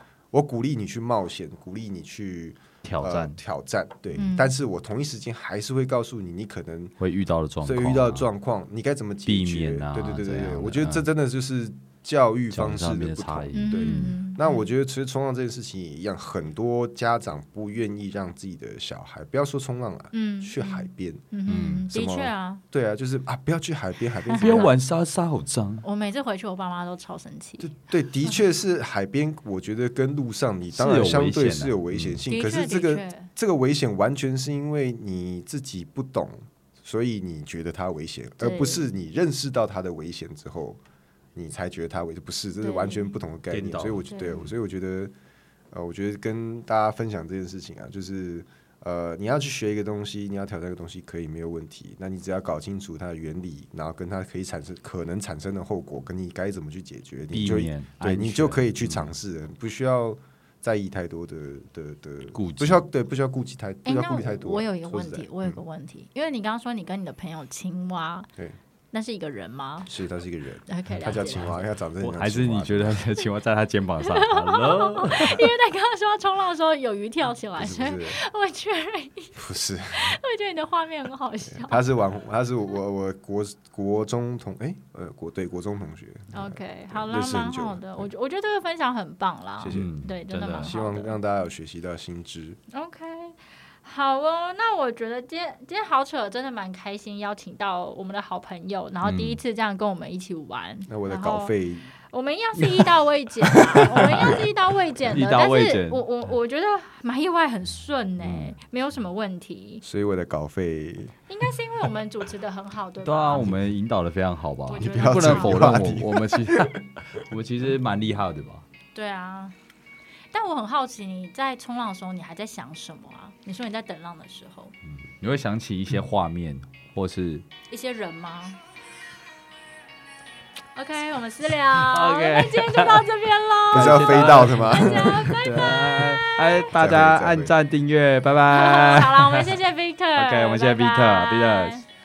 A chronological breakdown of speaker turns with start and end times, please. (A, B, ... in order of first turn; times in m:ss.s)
0:00.3-0:07.0 A
0:02.8-0:03.4 B
0:04.2-0:04.5 C
0:07.0-0:08.3 B
0:07.6-0:21.2 A
0:09.3-0:11.1 B
0:12.5-0:14.2 B
0:13.5-0:14.7 C
0:20.1-0:22.6 C
0:21.5-0:21.9 B
0:21.9-0:24.8 A
0:24.3-0:24.6 C
0:24.4-0:25.8 B
0:25.8-0:27.8 C
0:27.6-0:40.8 A
0:30.7-0:32.2 B
0:32.3-0:33.3 C
0:38.4-0:38.8 C
0:41.4-0:45.1 A
0:42.6-0:43.2 C
0:43.5-0:44.4 B
0:44.0-0:44.5 C
0:45.7-1:05.6 A
0:57.3-0:59.1 B
1:02.3-1:02.8 B
1:03.9-1:08.3 C
1:08.9-1:09.9 C
1:09.9-1:13.1 A
1:10.7-1:11.6 C
1:12.0-1:15.5 B
1:14.0-1:21.8 C
1:17.6-1:18.2 A
1:19.4-1:20.2 A
1:21.5-1:28.1 A
1:26.3-1:31.2 C
1:29.6-1:29.9 A
1:29.7-1:30.7 B
1:30.6-1:32.6 A
1:32.7-1:41.5 C
1:39.0-1:39.4 B
1:40.9-1:41.9 A
1:42.1-1:49.8 C
1:43.8-1:44.3 A
1:45.1-1:46.0 B
1:49.8-1:51.2 A
1:51.3-1:53.5 C
1:53.0-1:58.7 B
1:54.7-1:55.8 C
1:54.8-1:56.8 A
1:58.9-1:59.6 C
2:00.3-2:04.7 C
2:05.1-2:07.5 B
2:07.7-2:08.6 C
2:10.8-2:16.4 C
2:11.8-2:13.1 B
2:13.7-2:19.6 B
2:13.7-2:15.4 A
2:16.7-2:17.5 A
2:18.5-2:21.8 C
2:20.2-2:21.8 B